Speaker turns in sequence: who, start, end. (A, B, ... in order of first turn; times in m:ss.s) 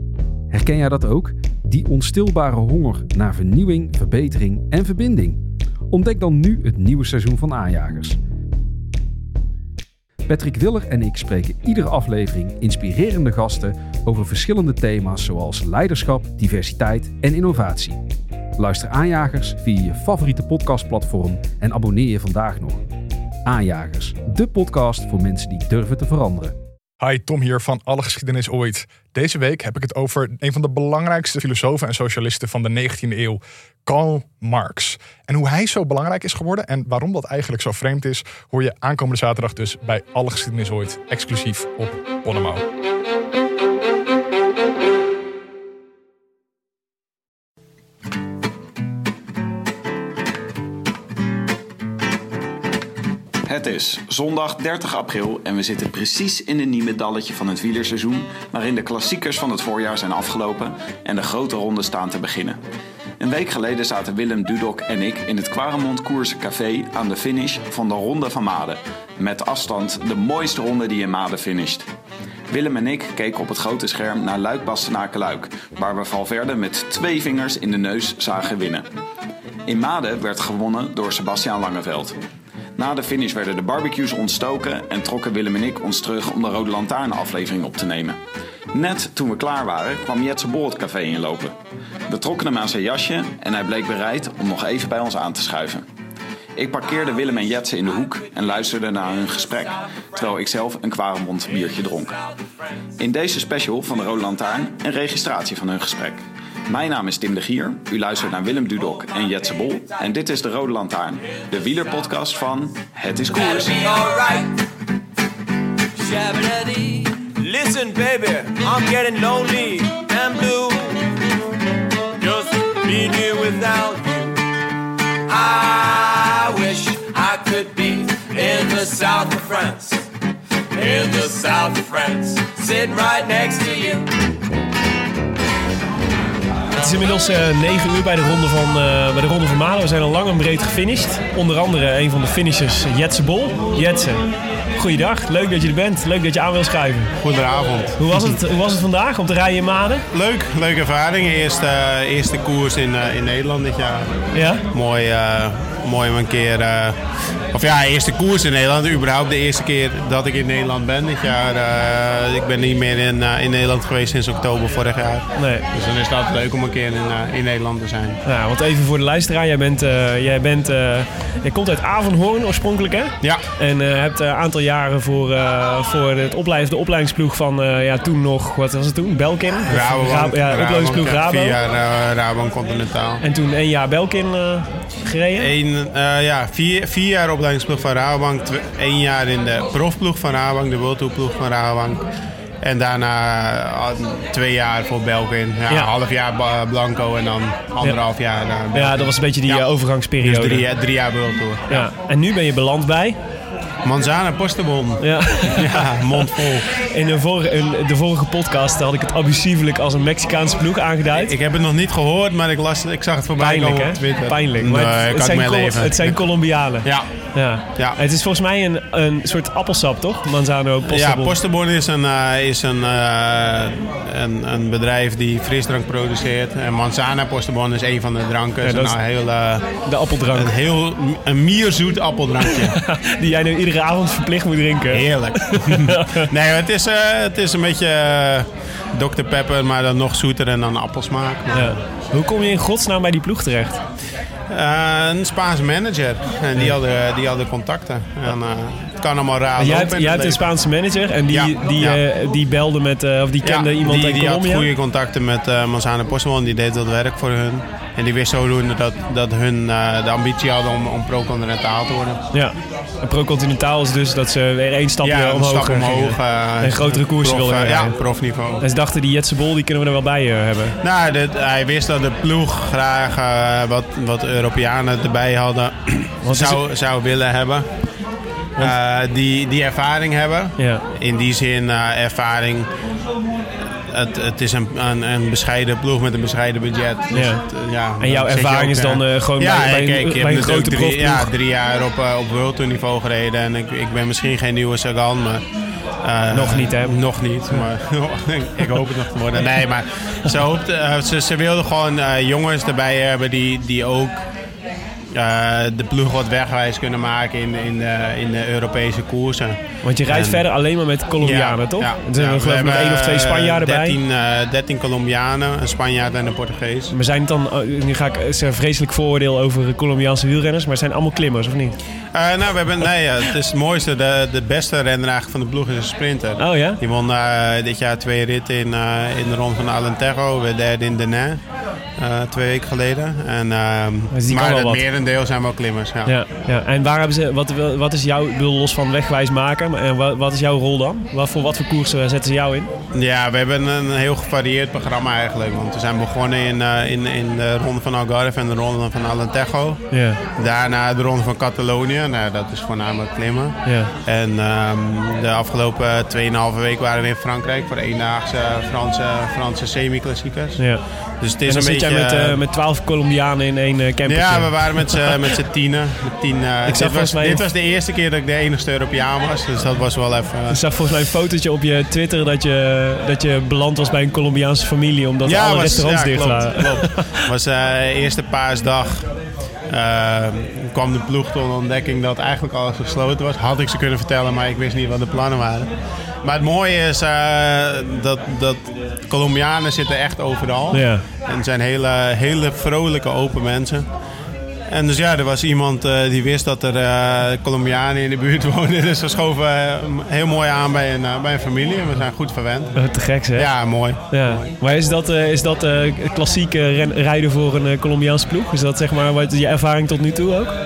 0:00.5-0:05.4 A
0:05.9-0:08.2 A
0:10.3-0:18.0 A
0:18.6-0:22.8 A
0:23.4-0:26.5 A
0:27.0-0:42.6 B
0:53.4-1:02.6 C
1:03.2-1:11.8 C
1:12.5-1:18.8 C
1:19.7-1:22.2 C
1:22.8-1:28.2 C
1:28.7-1:31.5 C
1:32.1-1:35.8 C
1:36.6-1:42.3 C
1:43.0-1:53.8 C
1:53.4-1:54.5 D
1:56.0-2:00.8 D
2:02.2-2:04.3 D
2:05.3-2:10.0 D
2:10.8-2:14.0 D
2:16.8-2:27.1 E
2:27.2-2:28.3 F
2:28.0-2:30.0 E
2:30.1-2:34.1 F
2:34.3-2:34.6 E
2:34.7-2:37.0 F
2:37.5-2:48.2 F
2:45.3-2:45.7 E
2:48.2-3:01.6 E
2:59.7-3:03.2 F
3:03.2-3:05.5 E
3:05.4-3:12.0 F
3:12.6-3:21.9 F
3:18.7-3:20.6 E
3:21.7-3:23.2 E
3:23.8-3:26.6 F
3:25.0-3:31.3 E
3:31.1-3:38.0 F
3:33.4-3:41.4 E
3:40.8-3:49.7 F
3:48.6-3:49.0 E
3:49.8-3:50.5 E
3:50.3-3:52.8 F
3:52.5-3:56.2 E
3:54.9-4:01.8 F
4:01.5-4:03.8 E
4:04.5-4:10.4 F
4:09.6-4:14.7 E
4:11.3-4:12.0 F
4:13.4-4:22.2 F
4:22.3-4:27.9 E
4:25.0-4:28.6 F
4:28.6-4:30.8 E
4:30.8-4:37.7 F
4:36.2-4:36.6 E
4:38.6-4:42.7 F
4:40.6-4:40.8 E
4:43.9-4:55.4 F
4:47.1-4:47.4 E
4:48.0-4:51.3 E
4:56.0-5:04.2 F
4:56.3-4:57.7 E
5:05.1-5:10.5 F
5:09.8-5:14.0 E
5:11.2-5:16.9 F
5:16.9-5:21.8 E
5:22.1-5:31.4 F
5:26.4-5:26.8 E
5:32.0-5:36.1 F
5:34.1-5:34.8 E
5:36.0-5:42.7 E
5:42.9-5:49.8 F
5:49.9-5:50.2 E
5:50.4-6:00.6 F
5:53.6-5:53.9 E
6:00.6-6:00.8 E
6:01.2-6:02.4 F
6:01.4-6:05.2 E
6:04.0-6:10.6 F
6:06.6-6:07.4 E
6:10.5-6:17.2 E
6:15.2-6:19.1 F
6:19.7-6:25.7 F
6:26.2-6:33.8 F
6:30.7-6:31.0 E
6:34.7-6:42.8 F
6:42.7-6:50.6 E
6:43.3-6:44.5 F